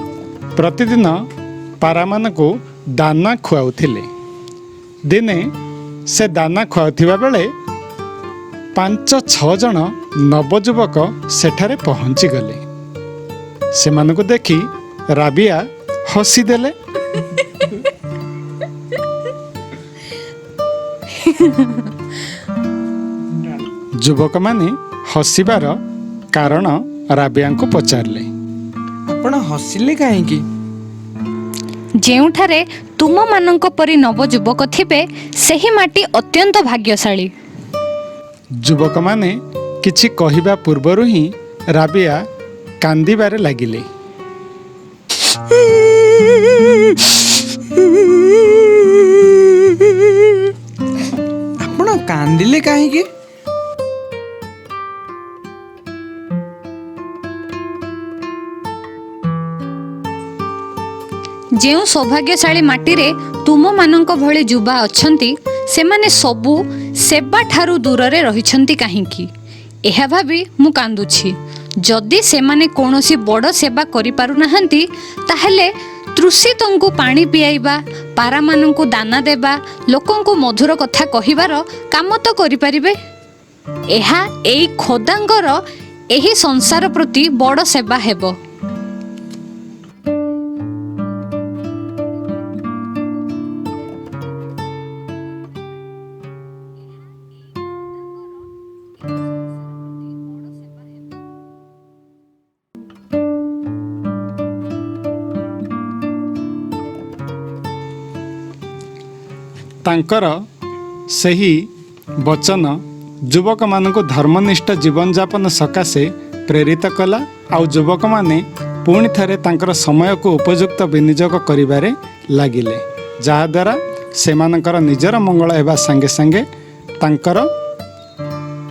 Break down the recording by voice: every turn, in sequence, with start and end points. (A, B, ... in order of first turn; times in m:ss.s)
0:00.5-0:01.3 A
0:01.8-0:04.1 A
0:05.0-0:05.5 A
0:06.1-0:07.5 A
0:08.7-0:12.6 A
0:13.7-0:16.7 A
0:21.2-0:21.8 B
0:24.0-0:25.8 A
0:26.3-0:28.3 A
0:29.1-0:30.4 C
0:32.0-0:37.3 B
0:38.6-0:42.2 A
0:42.8-0:43.9 A
0:45.6-0:47.0 C
0:47.7-0:50.3 C
0:51.6-0:53.1 C
1:01.6-1:09.3 B
1:09.8-1:23.0 B
1:23.9-1:28.4 B
1:49.8-1:50.4 A
1:51.1-2:06.4 A
2:07.0-2:07.5 A